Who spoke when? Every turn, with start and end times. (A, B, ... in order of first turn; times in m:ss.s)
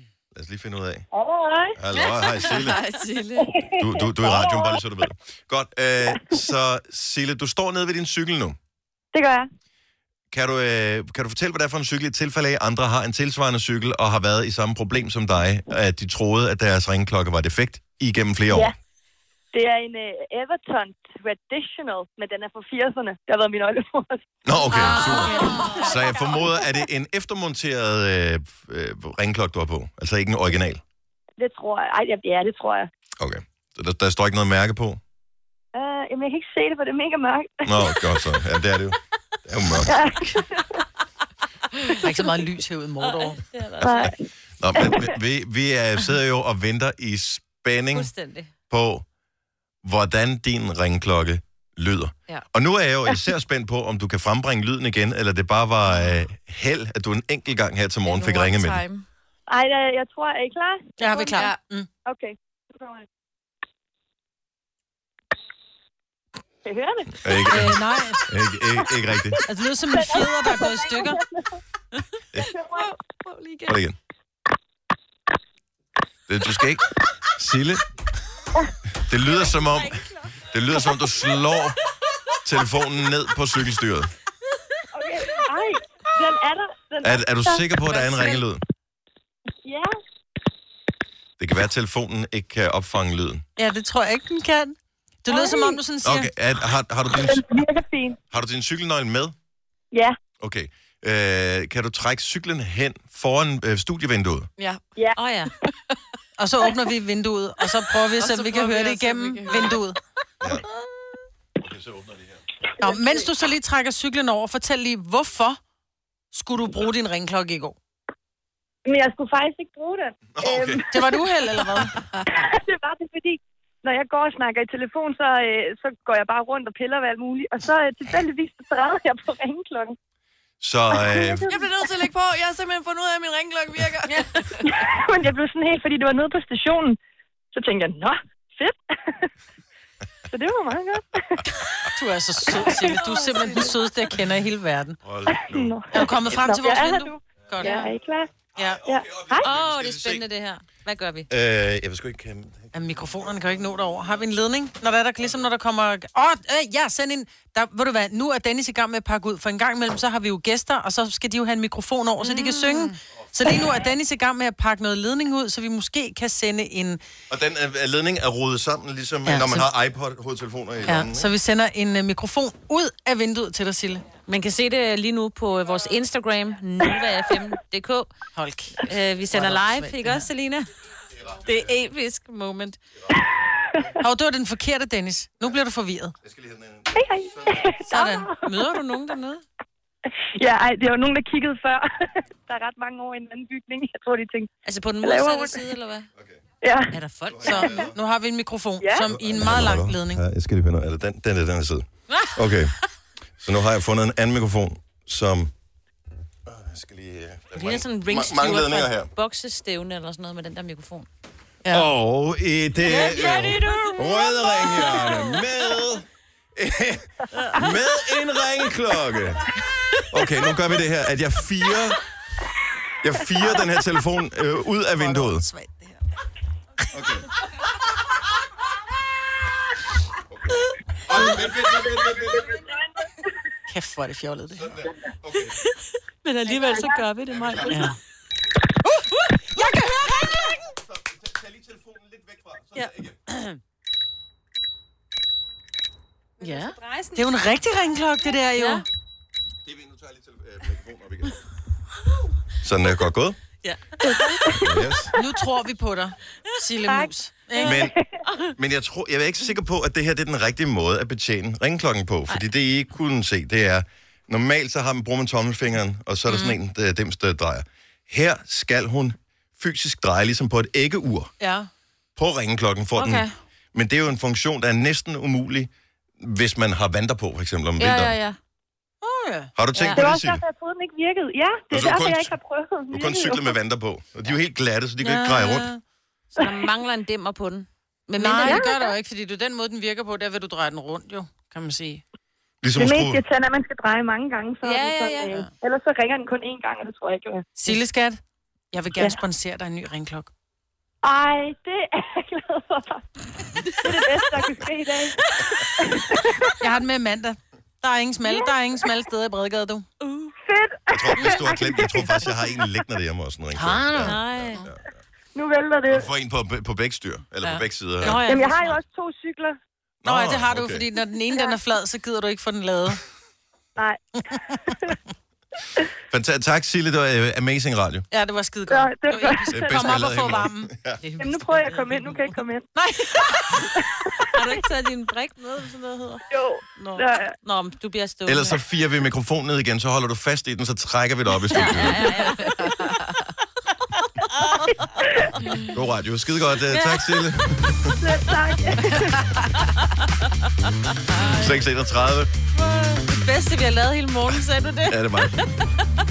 0:00.3-0:01.1 A
0:01.1-0:01.8 B
0:01.8-0:02.8 A
0:01.9-0:03.5 C
0:03.4-0:04.8 B
0:03.8-0:08.6 A
0:09.1-0:09.5 B
0:10.3-0:18.7 A
0:19.5-0:24.2 B
0:24.4-0:30.8 A
0:24.8-0:25.8 D
0:31.4-0:32.9 B
0:33.2-0:35.0 A
0:35.8-0:38.2 B
0:37.7-0:40.0 A
0:39.8-0:40.7 B
0:42.0-0:43.4 D
0:43.1-0:44.1 E
0:43.8-0:44.2 B
0:43.8-0:48.1 A
0:44.8-0:45.1 B
0:47.9-0:48.5 E
0:48.7-0:49.0 A
0:49.8-0:58.9 A
0:58.0-0:59.1 C
0:59.5-1:01.4 B
1:01.0-1:01.9 D
1:01.3-1:01.6 C
1:02.1-1:03.1 B
1:06.6-1:07.5 B
1:07.2-1:09.4 A
1:07.5-1:08.3 D
1:09.5-1:11.2 D
1:09.9-1:11.6 B
1:12.5-1:12.9 B
1:12.7-1:13.8 C
1:13.7-1:14.0 A
1:16.3-1:16.8 A
1:17.4-1:17.8 A
1:19.0-1:21.8 A
1:22.4-1:24.1 A
1:24.9-1:27.7 B
1:27.0-1:28.6 A
1:29.6-1:29.9 B
1:31.4-1:33.4 A
1:33.6-1:36.3 D
1:36.0-1:37.5 A
1:37.1-1:38.2 B
1:38.3-1:39.4 A
1:39.9-1:40.2 B
1:40.4-1:44.5 A
1:44.6-1:44.8 C
1:45.2-1:45.5 E
1:46.4-1:50.0 D
1:48.2-1:49.8 C
1:51.6-1:52.4 A
1:52.8-1:55.6 D
1:56.3-1:57.8 D
1:58.9-2:00.9 B
2:00.4-2:00.8 A
2:00.9-2:02.2 D
2:02.3-2:10.0 B
2:10.6-2:11.5 A
2:10.9-2:11.6 B
2:11.5-2:14.7 C
2:14.6-2:17.0 B
2:17.5-2:19.3 B
2:20.3-2:21.4 B
2:21.9-2:25.0 D
2:25.0-2:25.8 A
2:25.3-2:28.3 B
2:25.9-2:27.9 D
2:28.6-2:30.2 A
2:28.8-2:29.5 B
2:29.4-2:31.3 E
2:31.3-2:32.7 A
2:32.7-2:47.0 D
2:42.2-2:42.9 E
2:47.3-2:51.3 A
2:49.3-2:49.7 D
2:50.9-2:54.0 D
2:54.3-2:58.1 E
2:58.4-3:00.2 D
2:58.8-3:00.7 E
3:01.4-3:02.8 E
3:03.3-3:03.8 B
3:04.0-3:06.2 D
3:06.2-3:07.6 A
3:06.9-3:08.4 B
3:07.9-3:08.8 D
3:08.4-3:09.4 E
3:10.4-3:14.5 B
3:14.6-3:16.1 E
3:15.0-3:15.6 B
3:16.6-3:16.9 B
3:16.9-3:20.2 D
3:17.4-3:17.9 A
3:18.8-3:19.1 B
3:19.1-3:22.8 A
3:23.4-3:25.5 A
3:26.5-3:29.1 A
3:27.6-3:31.1 E
3:31.7-3:39.4 A
3:33.3-3:35.1 E
3:40.1-3:42.0 A
3:43.0-3:45.4 A
3:45.0-3:46.0 D
3:46.9-3:47.3 A
3:51.1-3:52.5 A
3:53.7-3:54.8 D
3:54.6-3:55.5 A
3:56.2-3:58.0 E
3:56.5-3:57.0 B
3:57.3-3:57.8 A
3:57.6-3:58.0 D
3:59.6-4:00.2 D
4:01.1-4:03.1 A
4:02.8-4:03.4 E
4:06.4-4:08.8 D
4:08.6-4:08.8 E
4:09.6-4:11.4 A
4:12.6-4:13.4 A
4:13.6-4:14.4 E
4:14.0-4:15.2 B
4:14.6-4:15.1 A
4:15.1-4:17.8 D
4:17.6-4:18.0 A
4:17.6-4:18.2 B
4:18.6-4:31.3 A
4:31.4-4:31.7 D
4:32.2-4:38.2 A
4:33.0-4:33.3 E
4:37.8-4:38.4 E
4:39.0-4:39.5 D
4:39.6-4:40.4 A
4:39.8-4:40.1 E
4:40.0-4:43.6 B
4:41.7-4:42.4 A
4:42.9-4:45.7 A
4:45.0-4:45.8 D
4:46.4-4:48.6 E
4:48.2-4:52.0 D
4:48.4-4:48.9 B
4:52.6-4:53.2 A
4:52.8-4:57.5 B
4:54.6-4:55.4 E
4:57.6-4:58.2 D
4:58.7-5:00.3 D
5:01.0-5:03.0 B
5:03.8-5:06.5 B
5:06.6-5:09.9 D
5:10.0-5:10.3 E
5:10.4-5:12.6 B
5:10.9-5:14.9 A
5:13.6-5:14.2 D
5:14.0-5:14.6 E
5:15.4-5:16.1 B
5:15.9-5:18.8 A
5:17.5-5:18.4 D
5:17.5-5:18.7 E
5:18.2-5:19.6 B
5:20.0-5:20.8 A
5:20.1-5:23.0 D
5:23.8-5:25.0 B
5:26.1-5:28.1 A
5:28.1-5:32.0 D
5:28.7-5:30.3 B
5:29.5-5:31.0 A
5:31.2-5:32.7 B
5:31.2-5:32.2 E
5:32.8-5:33.6 D
5:34.3-5:36.2 E
5:36.3-5:37.4 B
5:36.8-5:38.6 E
5:38.3-5:42.1 A
5:41.5-5:42.9 E
5:45.7-5:48.0 A
5:46.7-5:47.2 E
5:48.0-5:49.3 B
5:51.2-5:52.3 A
5:52.6-5:55.5 E
5:54.9-5:55.5 A